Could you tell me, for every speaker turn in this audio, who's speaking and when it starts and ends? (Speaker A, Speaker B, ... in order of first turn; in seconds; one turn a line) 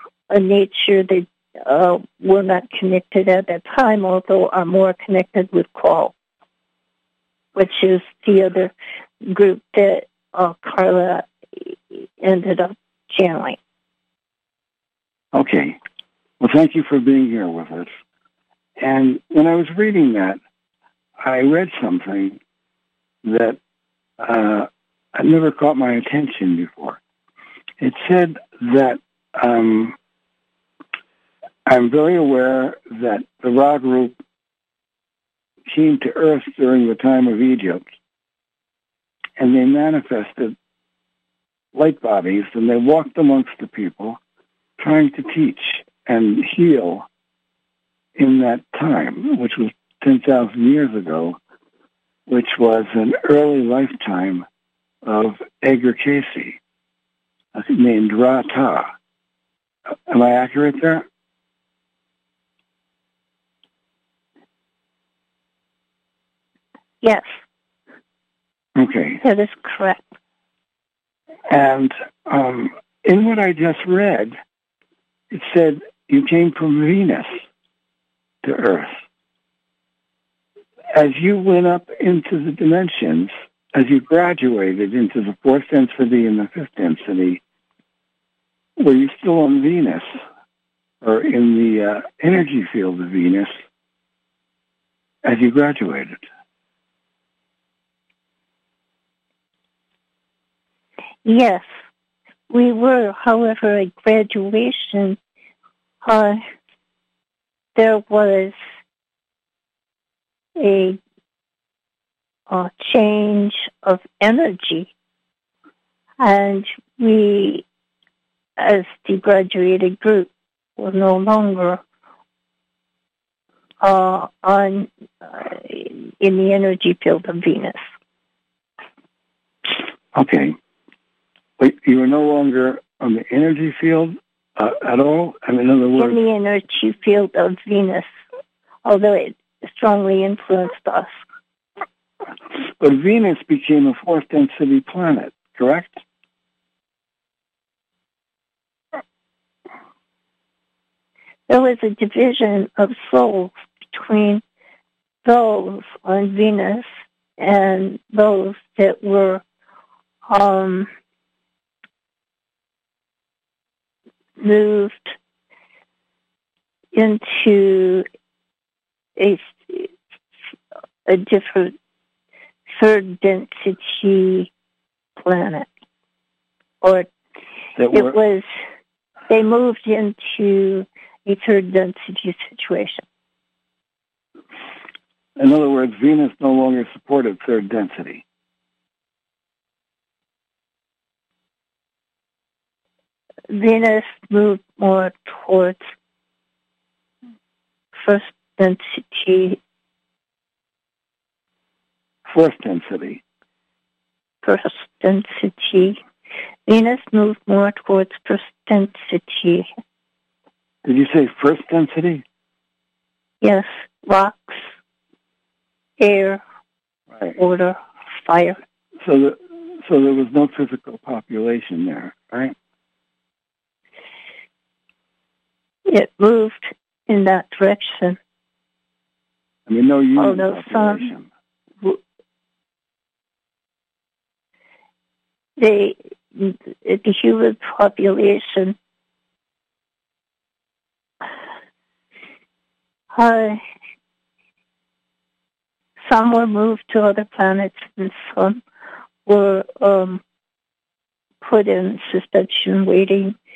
Speaker A: 0.3-6.1
Speaker A: 7.5-8.7
Speaker A: 9.3-11.3
Speaker A: 11.9-13.6
Speaker B: 15.3-15.8
Speaker B: 16.4-17.9
Speaker B: 18.8-20.4
Speaker B: 21.2-22.4
Speaker B: 23.2-23.6
Speaker B: 24.2-27.0
Speaker B: 27.8-30.0
Speaker B: 31.7-34.2
Speaker B: 35.7-37.9
Speaker B: 39.4-40.6
Speaker B: 41.7-44.2
Speaker B: 44.8-47.1
Speaker B: 48.2-51.4
Speaker B: 52.3-54.5
Speaker B: 55.0-56.6
Speaker B: 57.5-58.9
Speaker B: 60.1-61.1
Speaker A: 67.0-67.3
Speaker B: 68.8-69.2
Speaker A: 69.2-70.1
Speaker B: 71.5-74.4
Speaker B: 75.3-77.4
Speaker B: 78.4-79.0
Speaker B: 80.9-87.4
Speaker B: 88.8-90.2
Speaker B: 91.0-93.6
Speaker B: 95.2-96.2
Speaker A: 101.2-101.6
Speaker A: 102.5-105.2
Speaker A: 106.0-106.4
Speaker A: 107.8-108.5
Speaker A: 110.6-111.0
Speaker A: 112.5-114.9
Speaker A: 116.2-117.6
Speaker A: 118.6-121.8
Speaker A: 123.8-127.8
Speaker B: 130.1-130.6
Speaker B: 131.6-136.2
Speaker A: 136.0-138.1
Speaker A: 138.8-141.1
Speaker B: 142.8-146.0
Speaker A: 151.5-154.4
Speaker A: 155.2-156.9
Speaker A: 157.4-159.4
Speaker A: 160.3-160.9
Speaker A: 164.4-165.2
Speaker A: 166.9-168.1
Speaker A: 169.2-169.9
Speaker A: 171.1-171.7
Speaker A: 172.7-174.5
Speaker A: 175.2-175.7
Speaker A: 176.8-177.1
Speaker B: 177.8-178.2
Speaker A: 177.9-178.4
Speaker A: 179.3-183.0
Speaker B: 185.4-188.2
Speaker A: 193.5-195.8
Speaker A: 197.9-199.6
Speaker B: 202.2-203.2
Speaker A: 204.4-206.0
Speaker A: 206.7-209.7
Speaker B: 210.8-212.2
Speaker A: 213.4-214.7
Speaker A: 216.0-216.4
Speaker A: 217.4-218.6
Speaker B: 219.0-222.6
Speaker A: 225.9-228.2
Speaker B: 229.7-231.3
Speaker A: 230.2-231.1
Speaker A: 235.6-238.8
Speaker A: 243.1-243.6
Speaker A: 246.0-248.6
Speaker A: 249.3-250.2
Speaker A: 251.4-253.3